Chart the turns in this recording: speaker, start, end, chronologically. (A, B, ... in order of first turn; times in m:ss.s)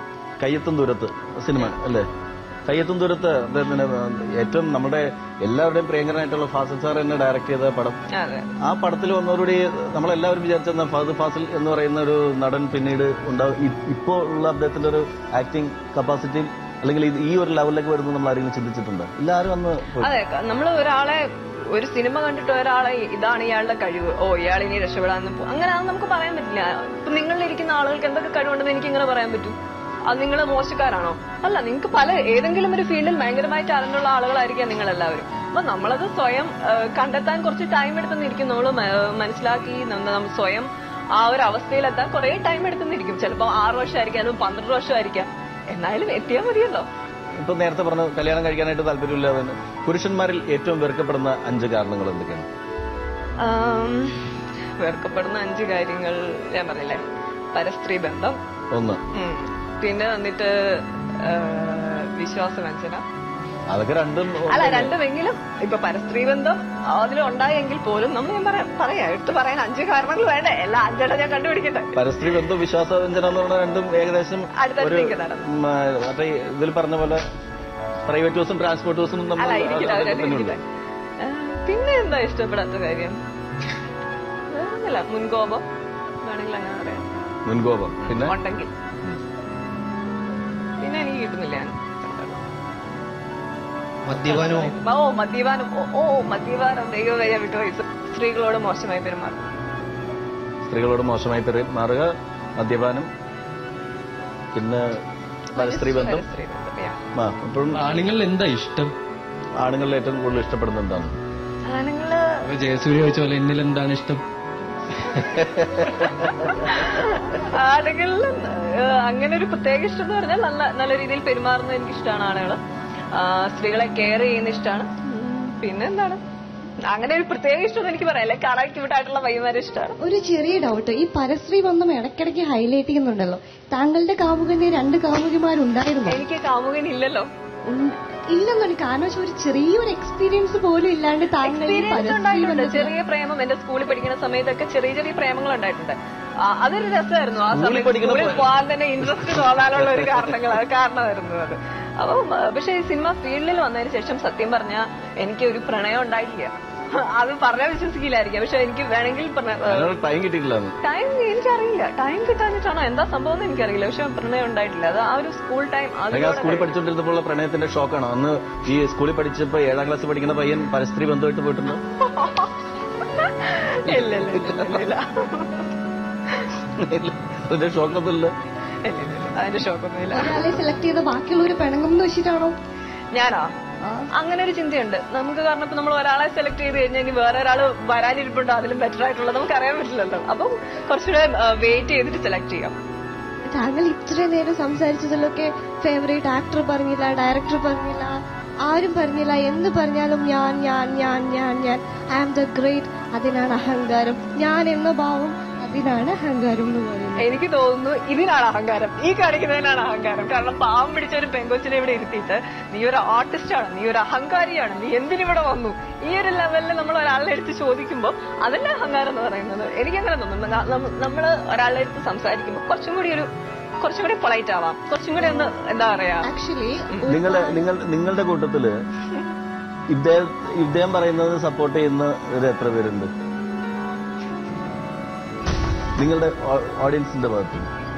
0:00.4-0:02.1 A
0:02.7-0:08.0 A
0:08.1-0:08.5 B
0:08.6-0:20.1 A
0:20.0-0:29.6 B
0:30.1-0:46.9 B
0:47.4-0:52.5 A
0:53.4-0:57.0 B
0:57.5-0:58.4 B
0:58.7-0:59.0 A
0:59.1-1:03.0 B
1:03.7-1:05.0 A
1:04.5-1:12.0 B
1:11.9-1:17.2 A
1:14.5-1:15.5 B
1:18.1-1:20.6 A
1:19.4-1:20.6 B
1:21.2-1:23.2 B
1:24.5-1:25.6 B
1:26.2-1:27.0 B
1:27.4-1:28.3 A
1:28.1-1:28.7 B
1:30.8-1:32.4 B
1:34.1-1:34.7 C
1:34.2-1:39.4 B
1:40.7-1:43.1 A
1:44.5-1:44.9 A
1:45.5-1:46.3 A
1:45.6-1:47.0 B
1:47.1-1:47.8 A
1:47.7-1:48.9 C
1:49.6-1:51.1 A
1:51.7-1:52.4 B
1:52.4-1:54.2 C
1:55.0-1:55.3 C
1:55.2-1:56.5 A
1:56.2-2:02.6 B
2:03.1-2:06.2 B
2:06.8-2:10.0 B
2:10.0-2:16.2 D
2:16.0-2:17.3 B
2:17.7-2:22.9 D
2:21.4-2:40.0 B
2:27.5-2:28.5 A
2:29.0-2:30.3 A
2:39.6-2:40.8 A
2:40.8-2:46.8 B
2:46.1-2:51.8 A
2:52.0-2:55.6 B
2:53.9-2:54.8 A
2:56.7-2:58.3 A
2:58.8-3:00.6 B
3:00.1-3:02.5 D
3:03.1-3:03.5 B
3:03.8-3:04.1 D
3:04.1-3:12.7 B
3:13.5-3:27.3 D
3:27.2-3:43.3 B
3:43.8-3:46.3 B
3:45.2-3:45.5 D
3:46.2-3:47.7 D
3:47.1-3:48.7 A
3:49.9-3:53.1 A
3:56.0-3:57.7 A